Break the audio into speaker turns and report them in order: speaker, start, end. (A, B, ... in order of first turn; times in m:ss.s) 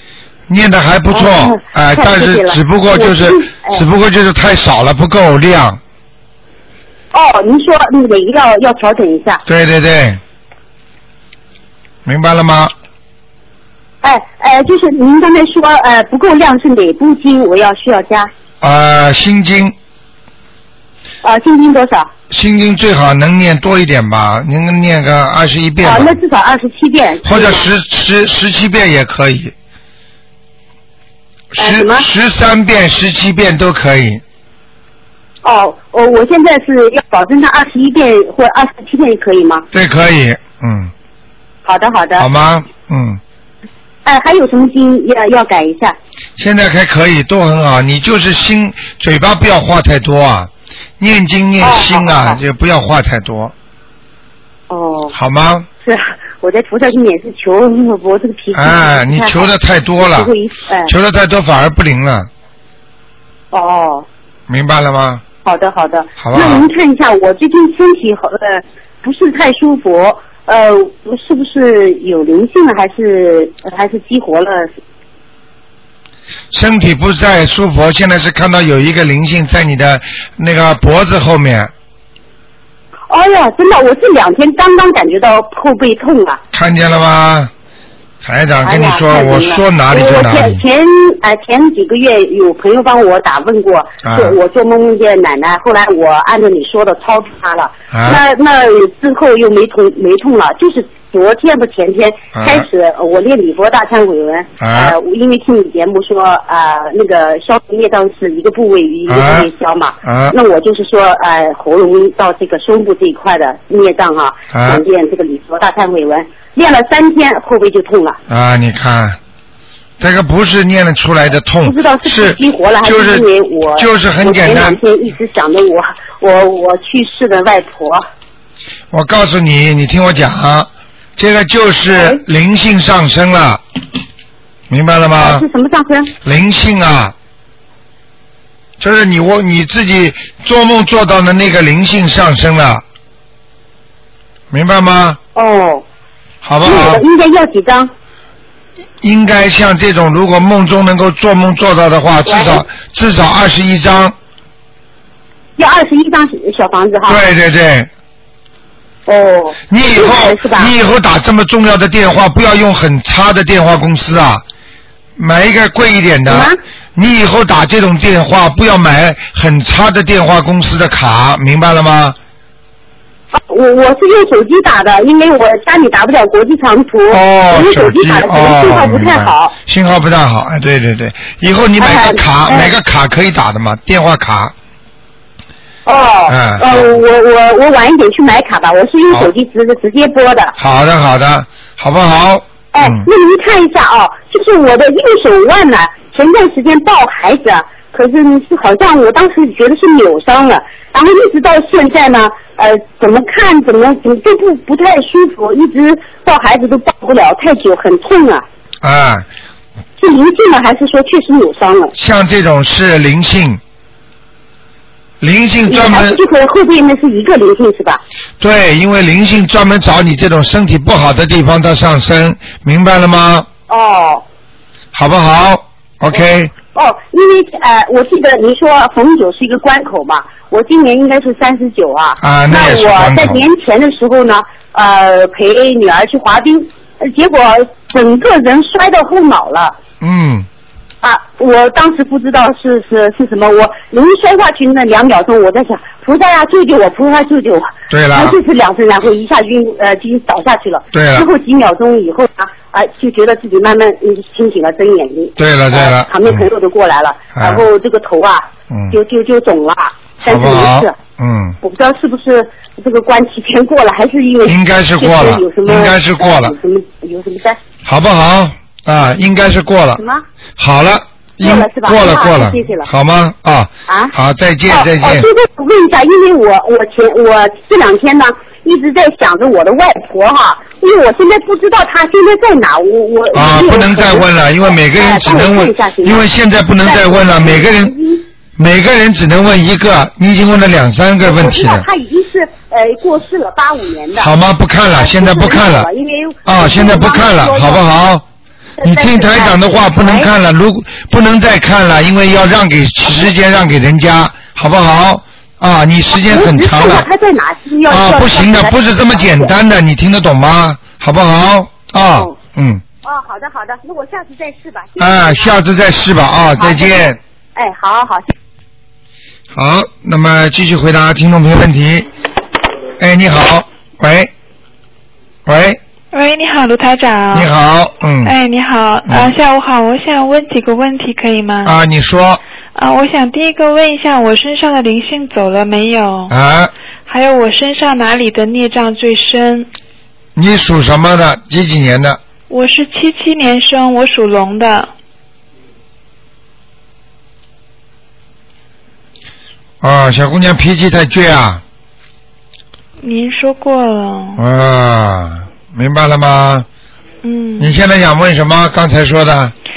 0:00.5-0:05.8 A
0:01.1-0:03.8 B
0:07.1-0:09.4 B
0:09.5-0:10.2 A
0:12.0-0:12.7 A
0:14.0-0:18.3 B
0:18.6-0:19.8 A
0:21.2-0:22.1 B
0:22.3-0:26.2 A
0:25.8-0:27.7 B
0:27.2-0:29.5 A
0:31.5-0:34.2 A
0:31.6-0:32.1 B
0:35.4-0:39.7 B
0:39.7-0:40.9 A
0:41.6-0:42.3 B
0:42.2-0:43.2 A
0:44.0-0:46.0 B
0:46.4-0:53.5 A
0:51.6-0:52.4 B
0:54.7-0:55.2 B
0:55.1-0:55.7 A
0:55.8-1:00.9 B
0:58.5-1:00.3 A
1:00.8-1:02.3 A
1:03.5-1:04.1 B
1:04.5-1:05.2 A
1:05.4-1:14.7 B
1:06.2-1:06.7 A
1:16.5-1:21.7 A
1:23.1-1:26.4 B
1:26.5-1:27.5 A
1:28.2-1:30.6 A
1:28.6-1:58.2 B
1:34.0-1:34.4 A
1:37.9-1:38.2 A
1:42.4-1:42.7 A
1:44.6-1:45.0 A
1:49.1-1:49.5 A
1:50.0-1:50.4 A
1:54.5-1:54.8 A
1:58.3-1:59.2 A
2:00.0-2:04.8 A
2:01.6-2:08.0 B
2:08.9-2:13.6 A
2:12.0-2:12.2 B
2:14.7-2:15.4 A
2:15.2-2:16.1 B
2:16.2-2:17.1 A
2:18.8-2:22.8 A
2:24.5-2:25.2 A
2:25.4-2:25.8 B
2:26.4-2:27.0 A
2:26.6-2:27.9 B
2:29.0-2:34.2 A
2:32.3-2:32.6 B
2:35.6-2:37.2 B
2:37.1-2:37.9 A
2:39.1-2:40.7 B
2:39.7-2:44.4 A
2:45.2-2:52.2 A
2:46.3-2:46.6 B
2:53.3-2:59.5 B
2:57.1-3:04.5 A
3:01.8-3:02.7 B
3:05.9-3:10.6 B
3:06.3-3:06.9 A
3:10.6-3:13.1 A
3:12.7-3:28.5 B
3:28.8-3:29.3 A
3:30.0-3:31.9 B
3:32.0-3:33.6 A
3:35.2-3:36.2 A
3:35.7-3:38.0 B
3:38.4-3:43.5 A
3:43.7-3:44.2 B
3:44.9-3:46.5 A
3:46.7-3:59.8 B
3:52.2-3:53.5 A
4:00.0-4:00.5 A
4:01.0-4:21.0 B
4:07.9-4:08.4 A
4:10.9-4:11.3 A
4:15.4-4:16.5 A
4:17.4-4:17.6 A
4:18.7-4:19.0 A
4:20.2-4:21.6 A
4:21.6-4:27.6 B
4:24.4-4:26.6 A
4:27.8-4:30.0 A
4:30.0-4:30.2 B
4:30.6-4:35.3 A
4:31.4-4:32.9 B
4:33.9-4:34.2 B
4:34.7-4:46.2 B
4:43.3-4:47.9 A
4:46.8-4:48.2 B
4:48.6-4:51.9 A
4:51.2-4:54.3 B
4:54.2-4:55.9 A
4:54.9-4:57.8 B
4:56.5-4:58.2 A
4:58.8-5:00.3 B
4:58.8-5:07.1 A
5:06.1-5:09.5 B
5:07.9-5:12.8 A
5:13.0-5:15.6 B
5:15.0-5:17.2 A
5:16.6-5:18.3 B
5:19.5-5:22.1 A
5:23.0-5:24.3 A
5:25.5-5:25.8 A
5:26.1-5:27.5 C
5:27.3-5:28.3 A
5:28.2-5:31.8 C
5:31.6-5:32.4 A
5:32.8-5:36.3 C
5:36.3-5:36.7 A
5:37.1-5:39.7 C
5:40.4-5:42.2 A
5:42.5-5:44.9 C
5:49.8-5:51.6 A
5:53.0-5:54.4 C
5:54.4-5:56.7 A
5:57.2-5:57.7 C
5:57.6-5:59.5 A